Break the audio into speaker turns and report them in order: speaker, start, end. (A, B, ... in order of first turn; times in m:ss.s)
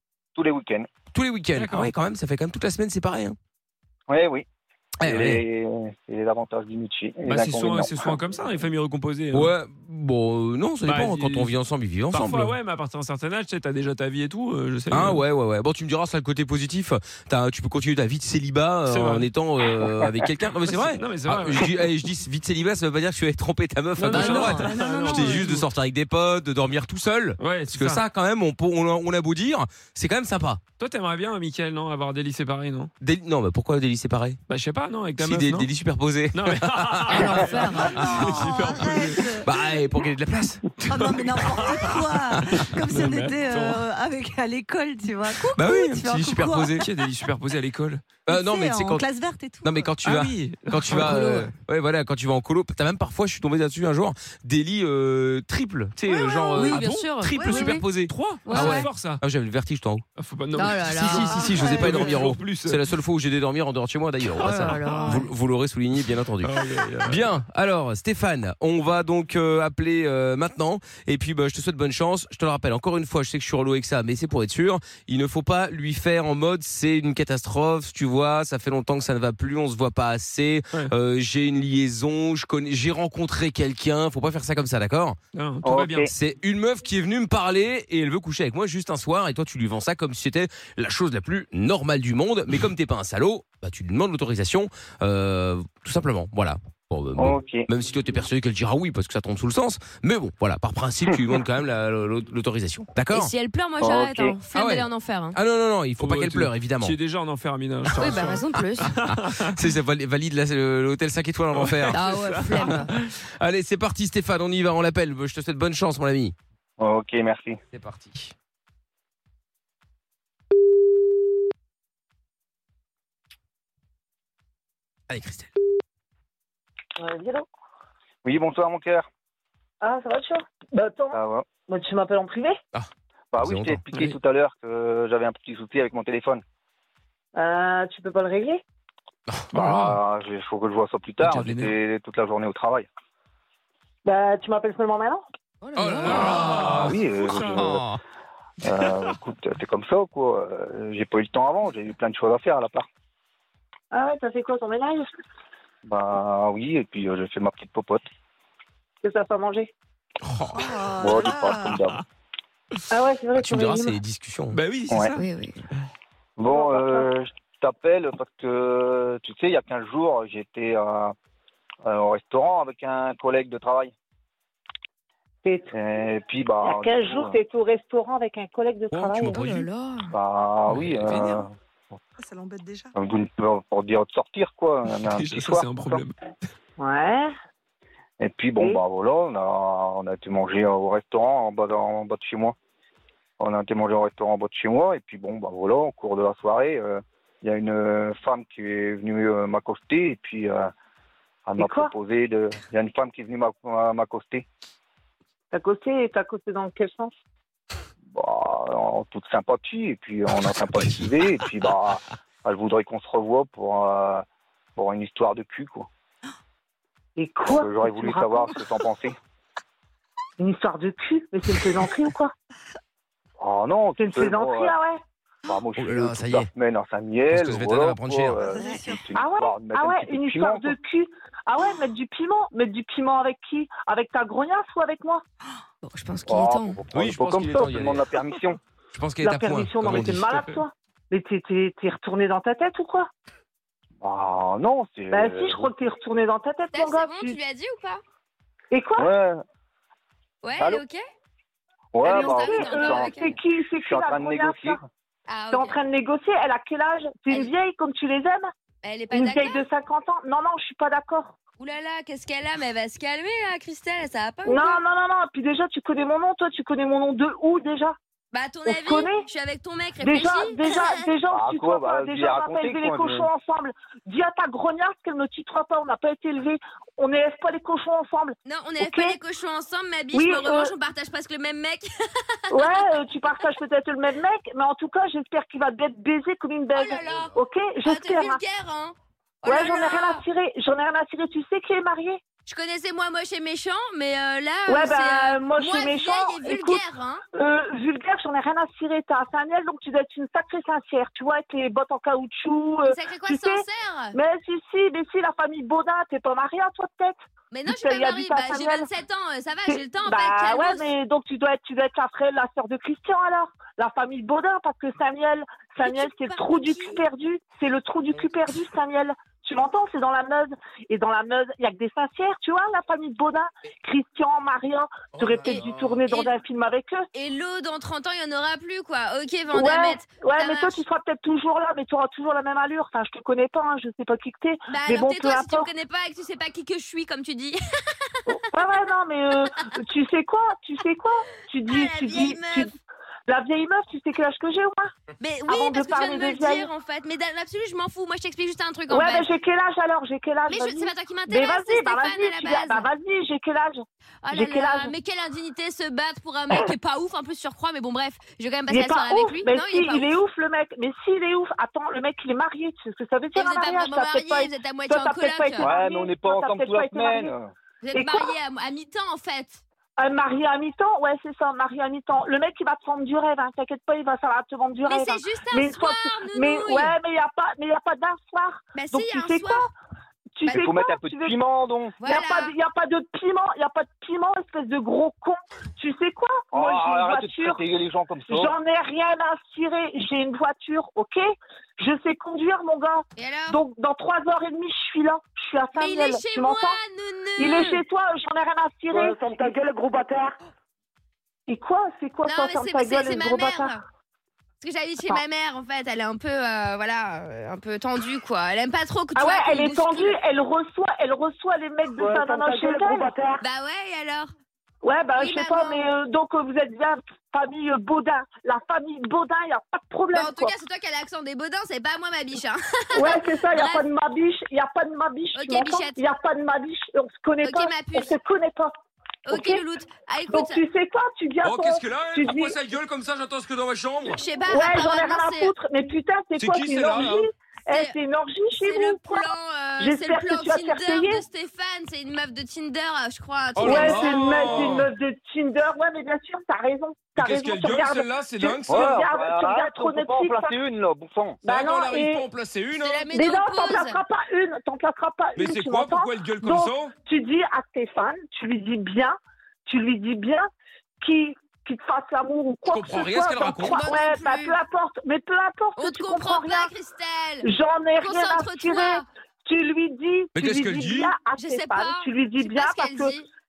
0:00.3-0:00.9 A
0:01.1-0:03.4 B
0:01.5-0:01.9 C
0:04.1-0:04.4 A
0:05.0-0:05.4 B
0:05.0-0:08.2 A
0:07.2-0:09.5 C
0:09.3-0:12.6 B
0:10.8-0:11.6 C
0:12.1-0:15.2 C
0:14.9-0:30.6 B
0:18.8-0:19.2 C
0:20.6-0:21.9 C
0:24.0-0:25.6 C
0:24.1-0:25.6 D
0:27.4-0:28.0 C
0:30.8-0:32.9 C
0:33.0-0:34.4 B
0:34.5-0:35.7 C
0:35.2-0:40.8 B
0:36.3-0:39.6 C
0:37.1-0:39.8 D
0:37.5-0:37.8 E
0:40.7-0:42.0 C
0:40.8-0:47.2 D
0:41.3-0:42.8 B
0:42.6-0:43.8 C
0:45.4-0:46.9 B
0:46.8-0:48.1 C
0:48.2-0:49.1 B
0:48.3-0:50.0 D
0:49.6-1:00.0 B
0:50.0-0:51.5 C
0:51.0-0:51.4 E
0:56.0-0:57.9 E
0:56.6-0:56.9 D
0:58.0-0:59.2 C
0:58.4-0:58.9 E
1:00.2-1:02.9 C
1:00.5-1:01.8 E
1:00.8-1:25.2 B
1:01.4-1:02.3 D
1:04.3-1:05.2 E
1:04.8-1:05.2 C
1:06.4-1:07.2 C
1:25.3-1:26.0 C
1:25.6-1:26.1 A
1:26.0-1:43.3 B
1:37.2-1:37.6 A
1:43.1-1:45.4 E
1:43.8-1:44.4 A
1:44.5-1:47.0 B
1:46.0-1:49.6 C
1:48.0-1:48.9 E
1:48.5-1:52.0 B
1:51.5-1:53.1 C
1:51.9-1:52.9 E
1:53.2-1:56.3 B
1:56.8-1:57.6 A
1:57.7-1:58.3 B
2:05.1-2:05.5 B
2:07.0-2:07.4 F
2:08.2-2:09.1 A
2:09.8-2:12.6 F
2:11.1-2:11.4 A
2:13.3-2:16.4 A
2:13.4-2:13.8 B
2:17.3-2:18.6 F
2:19.3-2:20.0 B
2:19.5-2:22.9 A
2:21.2-2:21.7 C
2:24.0-2:25.2 F
2:25.6-2:26.2 E
2:25.8-2:27.0 B
2:26.0-2:27.6 C
2:26.0-2:27.9 A
2:27.6-2:28.0 B
2:28.6-2:32.8 A
2:33.9-2:35.1 F
2:35.8-2:38.0 A
2:39.0-2:39.7 F
2:40.2-2:40.9 B
2:40.5-2:41.8 D
2:40.9-2:42.0 A
2:42.9-2:44.0 F
2:43.3-2:44.6 B
2:44.5-2:45.2 C
2:44.9-2:45.2 A
2:45.1-2:45.6 E
2:46.4-2:51.1 A
2:46.4-2:47.1 F
2:51.8-2:53.9 A
2:55.4-2:55.7 F
2:55.7-2:57.4 A
2:56.6-2:59.4 F
2:58.9-2:59.4 B
2:59.3-3:00.1 E
3:00.1-3:02.0 A
3:00.7-3:01.4 C
3:02.3-3:02.9 D
3:02.9-3:06.0 A
3:04.8-3:06.1 C
3:06.8-3:07.3 F
3:08.2-3:12.5 A
3:13.4-3:20.7 A
3:21.4-3:24.5 A
3:21.6-3:21.9 F
3:25.5-3:27.1 F
3:28.1-3:34.2 A
3:34.8-3:35.9 A
3:37.2-3:38.5 F
3:37.5-3:39.2 A
3:40.4-3:42.3 F
3:43.4-3:44.7 A
3:44.0-3:45.0 F
3:45.4-3:50.8 A
3:45.8-3:46.5 B
3:47.3-3:48.5 B
3:49.1-3:55.2 F
3:55.8-3:56.8 E
3:56.2-3:58.6 A
3:56.9-3:58.1 B
3:58.9-4:00.4 B
3:59.2-4:03.1 F
4:04.0-4:05.7 A
4:05.1-4:07.4 F
4:06.7-4:08.0 E
4:08.7-4:09.1 F
4:09.0-4:09.4 A
4:10.4-4:11.0 E
4:11.9-4:14.8 A
4:12.0-4:13.3 E
4:12.0-4:14.8 F
4:15.3-4:15.8 E
4:15.5-4:18.5 F
4:18.8-4:19.6 E
4:19.1-4:21.3 F
4:21.6-4:24.8 E
4:24.4-4:28.0 F
4:28.3-4:31.1 E
4:28.6-4:29.2 F
4:30.0-4:39.2 F
4:31.3-4:33.3 A
4:38.4-4:41.9 E
4:40.1-4:40.7 F
4:42.5-4:42.8 E
4:42.5-4:48.4 F
4:46.7-4:47.3 E
4:47.8-4:50.2 E
4:49.4-4:52.2 F
4:52.4-4:57.2 E
4:54.7-4:56.8 F
4:57.3-5:07.2 F
5:02.8-5:04.1 E
5:07.5-5:10.9 E
5:07.7-5:08.9 F
5:09.6-5:27.0 F
5:15.8-5:17.0 E
5:25.2-5:25.6 B
5:25.4-5:26.3 E
5:27.1-5:30.8 E
5:29.5-5:35.7 F
5:34.7-5:38.4 E
5:38.3-5:42.7 F
5:41.7-5:42.7 E
5:43.3-5:44.9 F
5:45.2-5:49.3 E
5:45.5-5:46.7 F
5:48.9-5:53.8 F
5:50.5-5:52.9 E
5:54.2-6:00.1 E
5:54.3-5:54.9 F
5:58.7-6:07.3 F
6:03.3-6:05.7 E
6:05.6-6:07.5 A
6:07.8-6:09.6 E
6:07.9-6:08.3 F
6:10.0-6:19.7 F
6:14.8-6:16.9 E
6:18.7-6:19.6 E
6:20.4-6:21.4 F
6:20.5-6:22.0 A
6:22.0-6:22.5 E
6:22.0-6:27.6 F
6:26.5-6:28.5 A
6:28.3-6:31.2 F
6:31.8-6:36.8 F
6:33.2-6:33.6 E
6:35.7-6:37.8 E
6:37.4-6:39.2 F
6:38.9-6:40.4 G
6:41.5-6:43.7 F
6:42.2-6:43.8 E
6:44.6-6:50.2 E
6:49.1-6:53.1 F
6:52.0-6:53.4 G
6:53.4-6:54.3 E
6:54.8-7:00.5 F
6:55.2-6:55.8 E
7:00.1-7:03.8 E
7:02.9-7:08.7 F
7:05.3-7:06.0 E
7:07.4-7:08.1 E
7:09.2-7:10.6 E
7:09.3-7:09.6 F
7:10.3-7:12.6 F
7:11.4-7:14.2 B
7:14.1-7:15.5 E
7:14.4-7:21.2 F
7:16.4-7:17.3 B
7:17.7-7:18.0 E
7:18.5-7:24.4 E
7:23.6-7:24.9 B
7:23.6-7:30.5 F
7:27.2-7:29.0 B
7:28.7-7:31.4 A
7:31.4-7:33.1 B
7:31.4-7:32.3 F
7:32.7-7:34.0 E
7:33.1-7:40.5 F
7:35.4-7:36.9 C
7:41.0-7:46.7 F
7:42.6-7:43.8 B
7:43.6-7:44.6 E
7:45.8-7:49.0 E
7:47.4-7:53.2 F
7:50.3-7:51.2 B
7:51.3-7:53.3 E